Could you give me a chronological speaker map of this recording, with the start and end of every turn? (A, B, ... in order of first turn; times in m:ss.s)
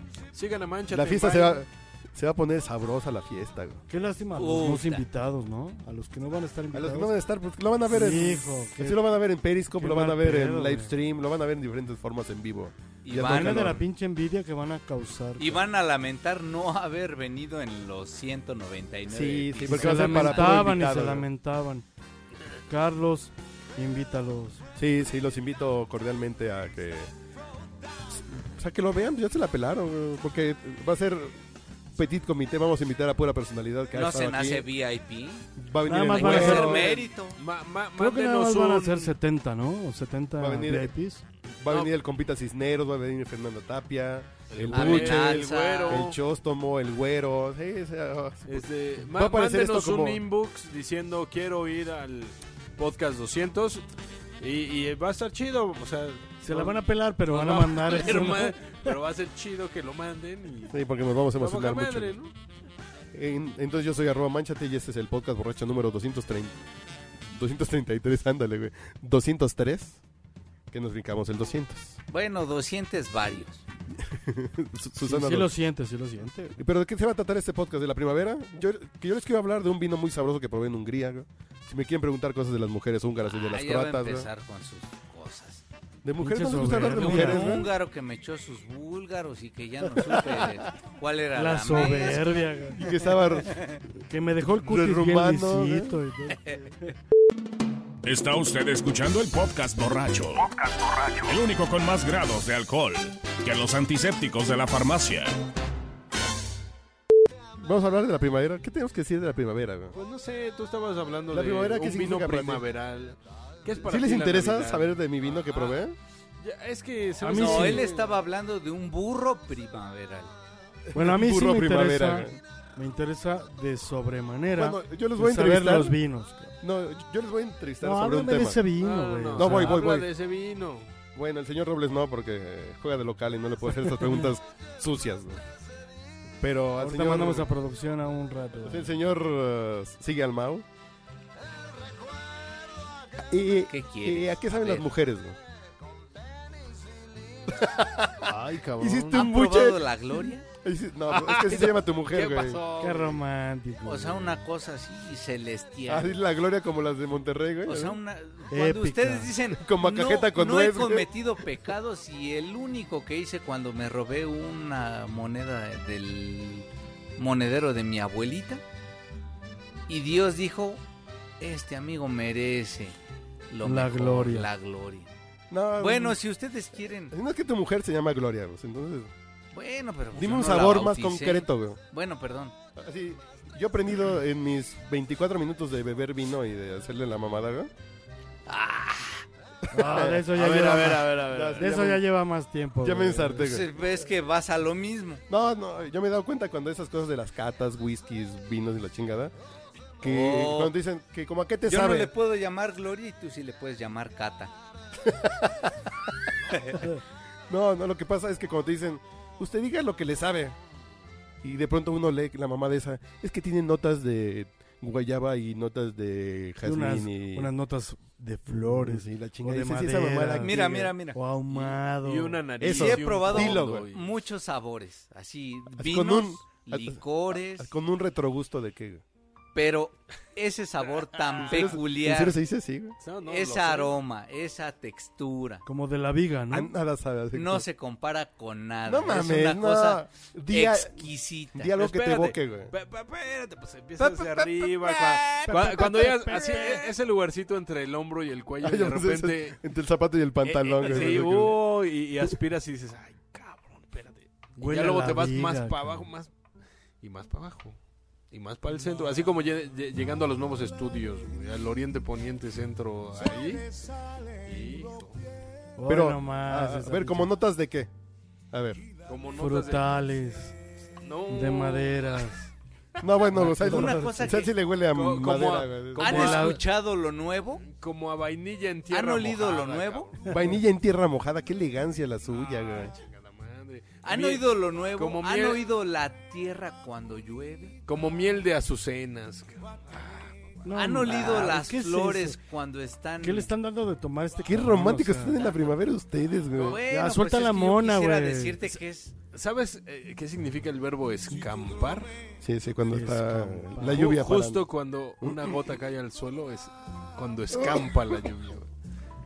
0:00.3-0:01.6 A
0:00.9-0:03.8 B
0:03.9-0:07.1 C
0:04.4-0:05.0 D
0:06.7-0:13.8 B
0:07.9-0:09.0 C
0:09.8-0:10.9 C
0:13.0-0:13.8 D
0:13.2-0:15.6 C
0:15.4-0:20.6 D
0:19.1-0:21.3 B
0:19.7-0:21.8 C
0:22.7-0:24.6 C
0:24.8-0:27.1 B
0:28.1-0:31.4 B
0:32.0-0:34.7 B
0:33.9-0:35.5 D
0:35.6-0:36.9 B
0:35.9-0:36.9 C
0:36.1-0:39.2 A
0:36.2-0:37.4 D
0:38.0-0:41.2 C
0:40.4-0:40.9 B
0:41.6-0:50.2 B
0:44.5-0:46.2 A
0:44.7-0:46.1 D
0:48.5-0:53.8 A
0:54.4-1:00.8 A
0:56.4-0:58.8 C
1:00.7-1:02.2 B
1:01.4-1:02.3 A
1:03.1-1:06.6 B
1:07.3-1:10.0 B
1:10.7-1:12.0 B
1:12.1-1:13.6 D
1:14.0-1:15.5 B
1:15.0-1:16.5 C
1:16.5-1:24.3 B
1:23.3-1:25.6 D
1:26.0-1:27.7 B
1:26.2-1:27.6 C
1:26.6-1:32.5 D
1:31.3-1:32.9 C
1:32.7-1:33.6 B
1:33.4-1:33.8 D
1:34.1-1:36.6 C
1:34.5-1:36.0 B
1:38.0-1:45.3 E
1:47.6-1:50.0 B
1:49.9-1:55.8 A
1:51.3-1:52.6 B
1:53.8-1:56.0 B
1:56.4-1:58.2 A
1:57.2-1:57.9 C
1:57.3-2:00.3 D
2:00.9-2:02.4 B
2:00.9-2:06.5 C
2:04.6-2:06.0 B
2:06.6-2:08.6 B
2:07.8-2:09.9 C
2:08.8-2:10.9 A
2:09.3-2:10.1 B
2:11.1-2:15.4 B
2:16.4-2:17.5 B
2:16.8-2:18.9 C
2:18.6-2:20.6 B
2:23.3-2:25.4 B
2:23.7-2:24.9 D
2:27.5-2:32.6 B
2:28.2-2:29.2 A
2:29.1-2:30.4 D
2:31.1-2:33.2 A
2:32.8-2:34.4 C
2:33.8-2:36.2 D
2:35.9-2:38.0 B
2:37.6-2:48.6 D
2:38.5-2:39.3 C
2:39.6-2:41.1 B
2:49.9-2:50.8 D
2:51.4-2:53.0 D
2:53.5-2:55.1 D
2:53.6-2:54.5 C
2:55.5-2:56.2 B
2:55.8-2:57.1 D
2:57.1-2:59.1 B
2:59.5-3:02.6 D
3:00.1-3:01.8 B
3:02.8-3:07.7 B
3:08.5-3:09.2 D
3:09.6-3:12.1 B
3:09.7-3:13.6 C
3:10.3-3:11.7 A
3:12.8-3:13.7 B
3:13.4-3:15.2 D
3:15.3-3:19.3 B
3:20.0-3:22.1 B
3:20.0-3:20.8 D
3:21.7-3:24.5 D
3:25.0-3:25.7 B
3:27.5-3:30.6 B
3:31.4-3:37.5 B
3:36.6-3:40.6 C
3:38.6-3:40.9 B
3:40.4-3:41.7 D
3:41.1-3:42.4 C
3:41.6-3:44.1 A
3:42.6-3:43.9 B
3:42.6-3:47.7 D
3:45.8-3:49.0 B
3:49.6-3:52.4 D
3:51.4-3:53.0 B
3:53.0-3:53.9 A
3:53.3-3:55.6 D
3:55.6-3:56.7 C
3:56.5-3:57.7 B
3:57.3-4:01.7 D
3:58.9-4:01.0 B
4:01.5-4:02.7 B
4:01.8-4:09.6 A
4:04.0-4:05.6 D
4:05.4-4:06.9 C
4:08.6-4:11.6 B
4:10.4-4:16.3 A
4:14.6-4:15.8 C
4:17.0-4:17.8 A
4:18.3-4:23.7 A
4:24.4-4:25.2 A
4:25.8-4:27.3 C
4:25.9-4:27.9 B
4:28.5-4:28.8 B
4:29.1-4:29.9 A
4:29.4-4:30.6 C
4:31.0-4:32.3 A
4:31.3-4:32.5 C
4:33.0-4:36.4 B
4:33.4-4:34.6 D
4:33.4-4:34.1 C
4:34.9-4:36.5 A
4:36.0-4:37.6 D
4:36.0-4:36.6 C
4:37.6-4:40.4 A
4:38.9-4:40.1 D
4:40.3-4:42.9 B
4:42.3-4:45.6 A
4:44.0-4:47.8 D
4:47.9-4:50.6 A
4:50.6-4:52.4 C
4:50.7-4:53.5 D
4:53.2-4:55.4 C
4:54.4-4:56.8 B
4:56.6-4:59.1 D
4:56.8-4:58.6 C
4:59.3-5:02.1 A
5:02.4-5:04.6 B
5:02.9-5:04.1 C
5:03.8-5:08.7 A
5:05.2-5:05.6 B
5:07.5-5:08.1 B